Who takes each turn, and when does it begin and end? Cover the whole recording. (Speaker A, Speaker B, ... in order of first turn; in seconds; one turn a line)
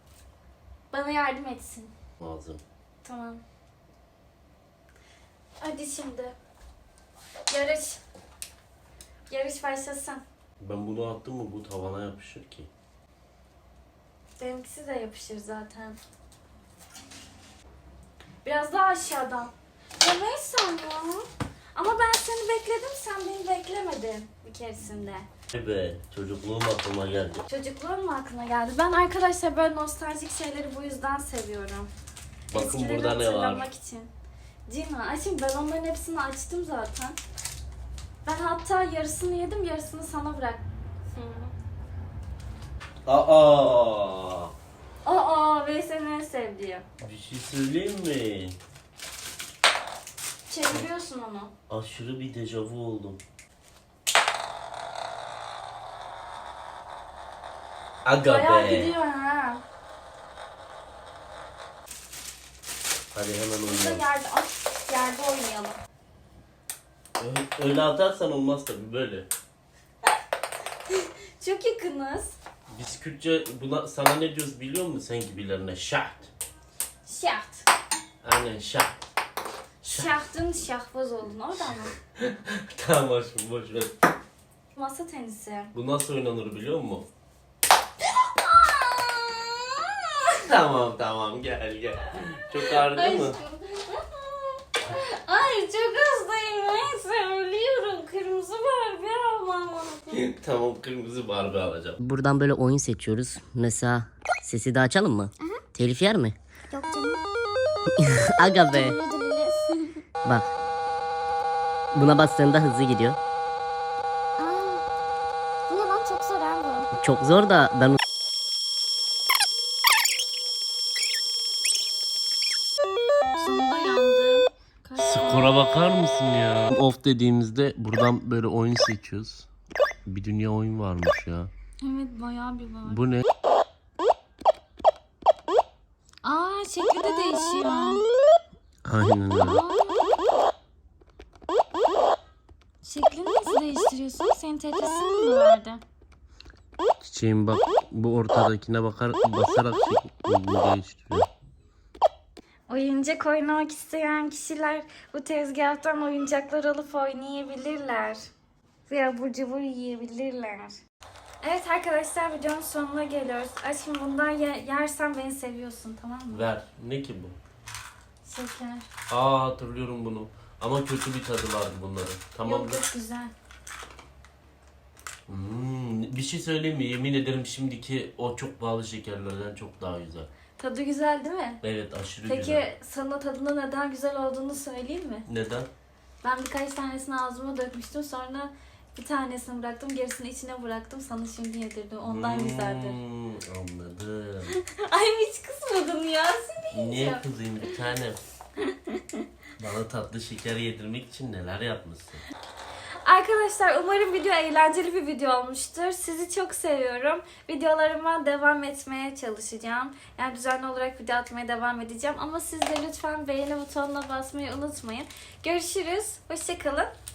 Speaker A: 0.9-1.9
Speaker B: 2.2-2.6
Speaker A: 3.0-3.4
Speaker A: 5.6-6.3
Speaker A: 7.5-8.0
Speaker A: 9.3-10.2
Speaker B: 10.6-12.7
Speaker A: 14.4-16.0
Speaker A: 18.4-25.3
Speaker B: 25.5-27.5
Speaker A: 27.5-31.9
Speaker B: 32.5-33.7
Speaker A: 32.5-34.1
Speaker A: 34.7-37.2
Speaker A: 38.2-41.5
Speaker B: 43.1-44.5
Speaker A: 45.0-46.9
Speaker B: 47.0-48.6
Speaker A: 50.5-51.5
Speaker B: 51.7-53.2
Speaker B: 58.0-58.9
Speaker A: 58.3-59.6
Speaker B: 63.1-64.0
Speaker A: 63.7-65.8
Speaker B: 67.2-69.3
Speaker A: 70.9-72.4
Speaker B: 72.7-76.3
Speaker A: 77.0-77.7
Speaker B: 78.2-79.0
Speaker B: 79.8-80.2
Speaker A: 79.8-81.9
Speaker B: 82.2-84.0
Speaker A: 84.8-85.7
Speaker B: 85.7-87.1
Speaker A: 88.0-90.4
Speaker B: 90.5-93.4
Speaker A: 92.7-100.2
Speaker B: 100.1-102.0
Speaker C: 102.0-106.4
Speaker A: 106.7-107.2
Speaker C: 108.0-109.0
Speaker A: 108.7-109.9
Speaker C: 110.2-110.5
Speaker C: 111.9-113.2
Speaker A: 114.4-114.8
Speaker A: 115.7-116.9
Speaker C: 116.9-118.0
Speaker A: 123.4-125.6
Speaker B: 125.0-129.5
Speaker B: 130.1-131.5
Speaker A: 131.8-133.0
Speaker B: 132.9-133.3
Speaker A: 136.2-138.1
Speaker B: 138.8-139.6
Speaker A: 139.4-140.1
Speaker A: 142.8-145.8
Speaker B: 147.0-151.3
Speaker A: 152.7-158.3
Speaker A: 158.9-160.8
Speaker A: 161.4-166.5
Speaker B: 166.3-167.4
Speaker A: 168.2-168.9
Speaker B: 169.1-172.8
Speaker A: 172.4-173.3
Speaker B: 175.3-180.3
Speaker A: 180.6-181.6
Speaker B: 181.6-182.7
Speaker A: 182.3-185.3
Speaker B: 185.3-185.7
Speaker A: 186.2-193.0
Speaker B: 192.0-194.6
Speaker A: 194.6-197.8
Speaker B: 196.7-198.2
Speaker A: 198.6-199.2
Speaker B: 199.6-202.2
Speaker A: 203.0-216.9